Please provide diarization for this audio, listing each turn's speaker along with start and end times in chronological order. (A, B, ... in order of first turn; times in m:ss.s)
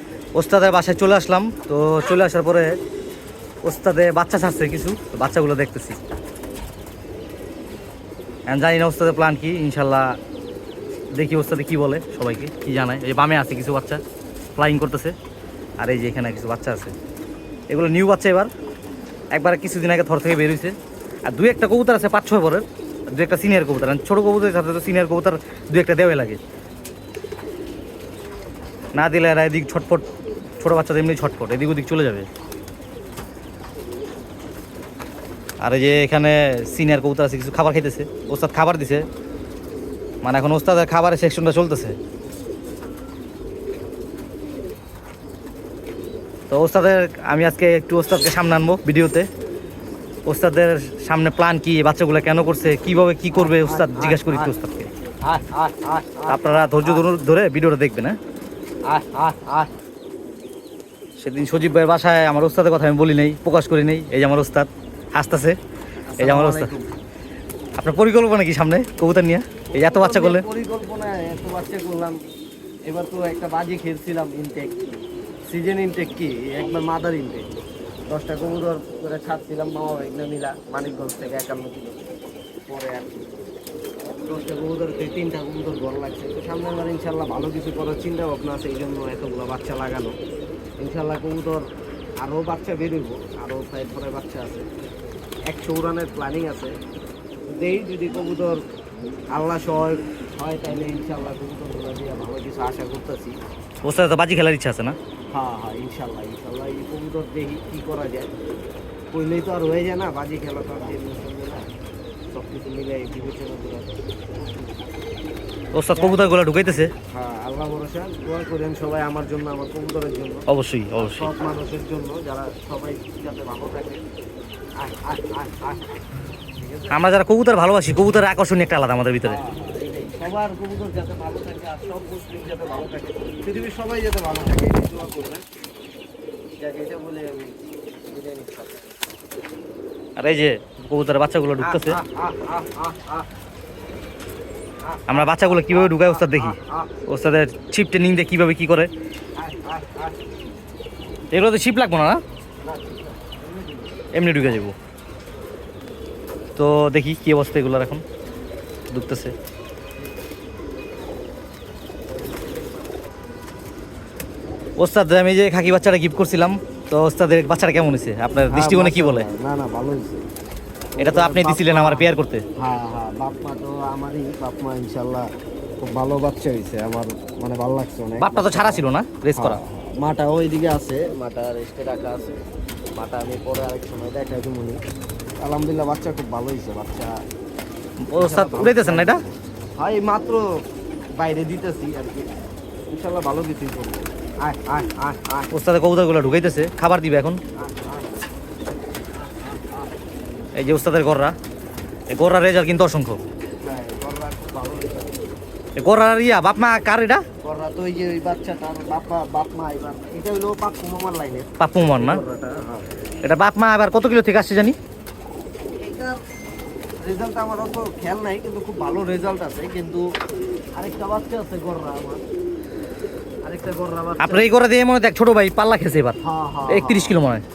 0:00.4-0:02.7 A
0:03.6-0:06.0 A
0:08.5-0:10.2 A
0:11.2-0:14.0 A
0:14.6-0:15.2 A
0:15.8-0:16.9 A
0:17.7-0:18.5 A
0:19.3-0:20.7 A
0:21.3-0:26.4 A
0:29.0-0:30.1 A
0:30.6-0:32.3 A
0:35.6-0:39.1 A
0:40.2-0:42.0 A
0:46.5-0:49.3 A
0:50.3-0:54.9 A
0:53.3-0:54.5 B
0:55.2-0:57.1 B
0:56.3-0:58.2 A
0:58.9-0:59.7 B
1:01.2-1:05.6 A
1:06.1-1:06.9 B
1:06.2-1:06.7 A
1:07.8-1:10.5 A
1:09.7-1:12.2 B
1:12.9-1:14.8 B
1:15.5-1:17.5 B
1:18.1-1:22.0 B
1:22.7-1:23.3 B
1:24.3-1:30.2 B
1:30.8-1:31.6 B
1:32.2-1:34.7 B
1:35.5-1:36.8 B
1:37.5-1:38.6 B
1:39.3-1:43.4 B
1:43.8-1:45.0 A
1:45.3-1:48.3 B
1:49.1-1:51.6 B
1:52.3-1:54.0 B
1:55.7-1:56.9 A
1:55.9-1:56.3 B
1:57.1-2:00.4 B
2:00.5-2:01.3 A
2:01.0-2:04.0 B
2:04.8-2:05.8 B
2:06.6-2:07.0 B
2:06.9-2:09.4 A
2:09.2-2:15.4 B
2:16.6-2:18.8 B
2:20.2-2:22.0 A
2:21.6-2:23.3 B
2:24.8-2:26.9 B
2:25.1-2:28.9 A
2:29.4-2:30.3 B
2:31.3-2:32.2 A
2:32.6-2:33.9 B
2:34.1-2:34.8 A
2:36.6-2:38.0 A
2:38.9-2:39.3 A
2:42.2-2:42.6 B
2:44.8-2:49.3 A
2:48.5-2:50.2 B
2:51.0-2:55.3 B
2:51.0-2:52.4 A
2:55.8-3:02.4 B
2:58.2-2:59.6 A
3:03.0-3:04.8 B
3:05.4-3:07.2 B
3:08.0-3:09.2 A
3:08.2-3:10.5 B
3:11.2-3:12.4 B
3:12.9-3:15.5 B
3:15.5-3:17.4 A
3:17.6-3:18.1 B
3:19.2-3:19.9 B
3:20.6-3:21.3 A
3:22.1-3:23.2 A
3:23.6-3:25.2 B
3:25.8-3:27.2 A
3:27.4-3:32.9 B
3:31.6-3:32.2 A
3:33.2-3:34.8 A
3:35.8-3:36.2 B
3:37.0-3:40.0 B
3:40.8-3:42.2 B
3:43.4-3:44.5 B
3:44.2-3:46.2 A
3:46.2-3:47.2 B
3:46.7-3:47.4 A